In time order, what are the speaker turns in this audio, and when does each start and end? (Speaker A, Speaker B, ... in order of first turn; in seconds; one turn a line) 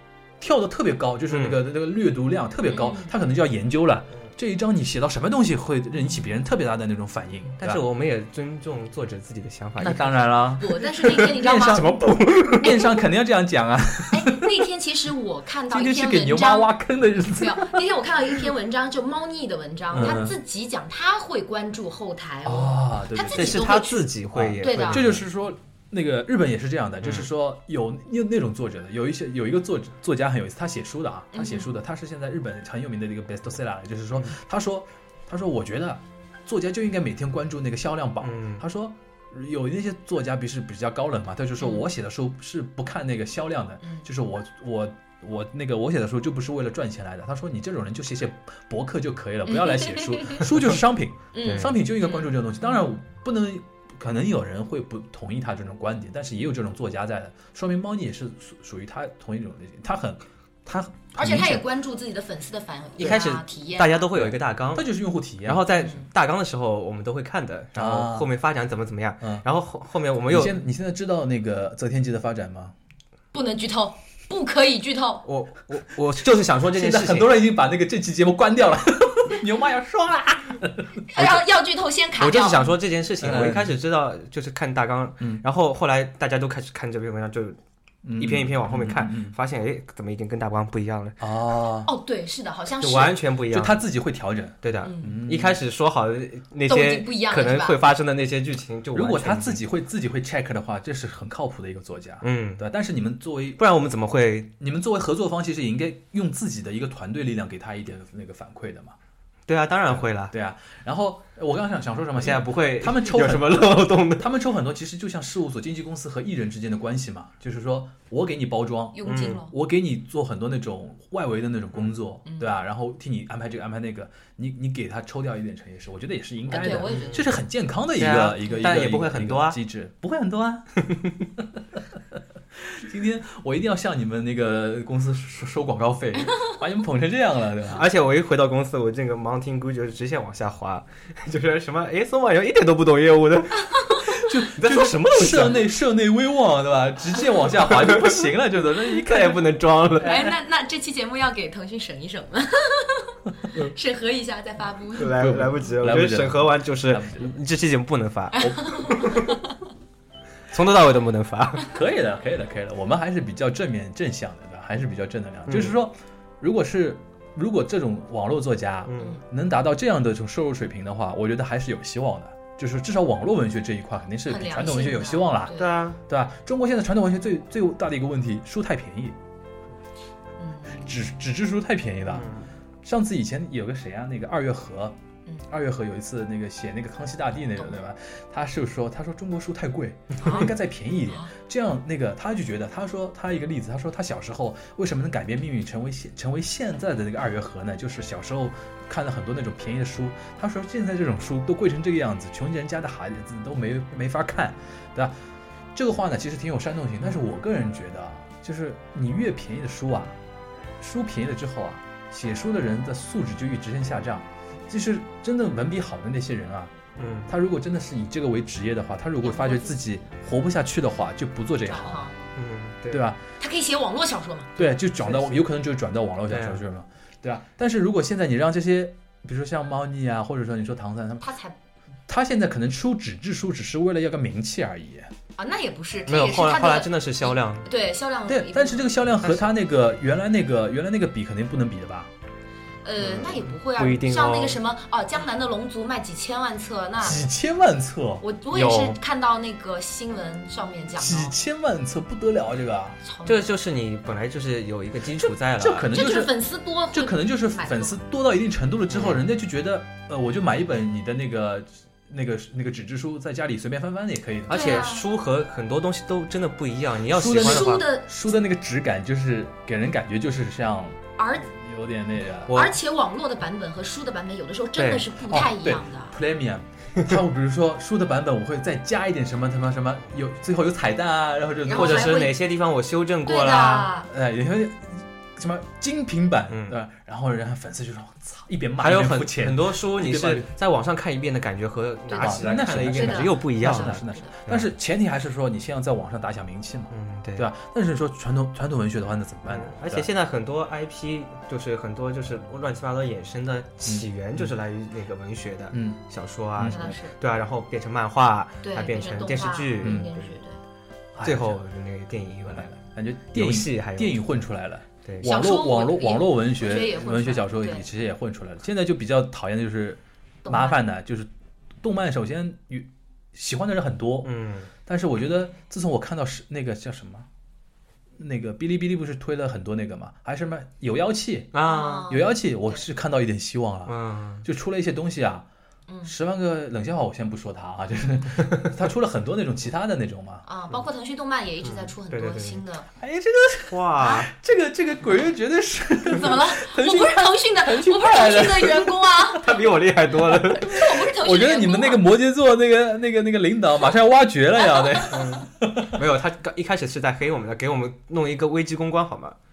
Speaker A: 0.4-7.8
Speaker B: 1.3-1.6
Speaker C: 2.7-3.1
Speaker B: 7.6-10.4
Speaker A: 9.8-14.5
Speaker C: 10.6-11.9
Speaker B: 10.9-12.9
Speaker C: 14.1-24.1
Speaker A: 15.7-17.9
Speaker B: 19.9-20.2
Speaker A: 19.9-20.3
Speaker A: 22.4-23.8
Speaker B: 23.3-25.2
Speaker A: 24.3-61.6
Speaker C: 24.6-25.0
Speaker C: 31.3-31.7
Speaker B: 38.2-38.6
Speaker C: 41.6-41.9
Speaker C: 49.5-50.5
Speaker C: 51.3-53.0
Speaker B: 51.4-51.8
Speaker C: 61.1-64.1
Speaker B: 63.0-64.9
Speaker A: 64.2-65.7
Speaker B: 65.4-70.6
Speaker A: 67.8-68.3
Speaker A: 70.3-72.8
Speaker C: 73.3-75.2
Speaker B: 75.2-77.4
Speaker A: 76.7-81.4
Speaker C: 81.1-82.8
Speaker B: 82.2-87.6
Speaker A: 83.2-83.7
Speaker A: 88.0-89.3
Speaker B: 88.2-91.2
Speaker A: 91.2-91.9
Speaker C: 91.9-93.2
Speaker B: 92.8-93.8
Speaker A: 93.5-95.6
Speaker B: 94.6-99.6
Speaker C: 94.8-95.2
Speaker C: 96.7-97.8
Speaker A: 98.9-103.6
Speaker B: 102.2-102.7
Speaker B: 103.6-104.5
Speaker A: 104.6-109.0
Speaker B: 109.5-110.3
Speaker A: 109.9-130.8
Speaker B: 112.2-114.3
Speaker C: 118.9-119.5
Speaker B: 119.0-119.4
Speaker C: 122.2-122.5
Speaker C: 126.5-127.3
Speaker B: 126.8-127.3
Speaker B: 128.0-129.6
Speaker C: 128.4-128.8
Speaker A: 131.4-131.8
Speaker A: 132.6-137.9
Speaker B: 137.7-145.7
Speaker A: 144.2-149.4
Speaker B: 147.7-148.2
Speaker B: 148.9-150.3
Speaker C: 150.0-155.2
Speaker B: 154.9-159.3
Speaker A: 155.2-157.4
Speaker C: 158.4-159.4
Speaker B: 160.5-161.7
Speaker A: 161.6-179.2
Speaker B: 165.5-165.8
Speaker B: 168.9-169.2
Speaker C: 174.3-175.8
Speaker B: 175.5-176.0
Speaker C: 180.4-181.0
Speaker A: 180.8-182.3
Speaker B: 182.1-182.5
Speaker A: 182.8-185.0
Speaker A: 185.5-205.1
Speaker C: 190.2-190.5
Speaker A: 205.7-210.2
Speaker A: 210.8-216.7
Speaker B: 217.0-217.3
Speaker A: 217.3-222.1
Speaker C: 219.2-219.8
Speaker C: 221.7-222.3
Speaker B: 222.4-223.1
Speaker A: 222.9-223.2
Speaker C: 223.4-224.6
Speaker A: 224.6-231.2
Speaker B: 226.3-226.6
Speaker C: 231.2-231.6
Speaker A: 232.1-235.1
Speaker C: 235.4-238.9
Speaker B: 236.1-237.7
Speaker A: 238.3-242.1
Speaker B: 239.2-239.5
Speaker C: 242.8-247.2
Speaker B: 243.0-244.6
Speaker A: 247.0-248.2
Speaker C: 248.2-251.4
Speaker B: 248.5-249.0
Speaker A: 251.0-253.0
Speaker C: 253.0-253.5
Speaker B: 253.3-255.9
Speaker A: 255.6-256.3
Speaker C: 255.9-258.0
Speaker A: 256.9-264.9
Speaker B: 258.9-259.2
Speaker C: 264.5-265.1
Speaker B: 264.5-267.9
Speaker A: 267.1-272.6
Speaker C: 267.3-268.2
Speaker C: 271.2-271.5
Speaker B: 272.5-272.8
Speaker C: 272.5-276.1
Speaker B: 274.8-275.1
Speaker A: 275.3-282.2
Speaker C: 281.7-282.4
Speaker B: 281.7-283.9
Speaker C: 283.3-284.1
Speaker A: 284.1-290.5
Speaker B: 286.5-286.8
Speaker B: 288.8-294.7
Speaker C: 292.1-294.3
Speaker A: 292.2-300.1
Speaker B: 296.9-297.5
Speaker B: 299.5-310.3
Speaker A: 303.9-304.5
Speaker A: 305.7-306.0
Speaker A: 306.6-306.9
Speaker C: 306.7-307.2
Speaker C: 308.6-310.6
Speaker A: 309.8-310.1
Speaker A: 311.1-311.6
Speaker B: 311.2-314.3
Speaker A: 312.5-321.3
Speaker C: 315.2-317.9
Speaker C: 320.4-320.8
Speaker A: 321.8-324.3
Speaker B: 324.2-324.7
Speaker A: 324.9-327.3
Speaker A: 328.2-331.6
Speaker B: 331.5-332.1
Speaker C: 331.6-332.8
Speaker A: 332.1-335.5
Speaker B: 333.9-334.4
Speaker A: 336.0-340.4
Speaker C: 340.4-342.9
Speaker B: 341.6-342.6
Speaker A: 343.0-349.1
Speaker B: 343.7-344.3
Speaker C: 346.1-349.6
Speaker B: 349.4-351.0
Speaker C: 350.3-352.0
Speaker A: 351.0-356.0
Speaker B: 355.1-359.4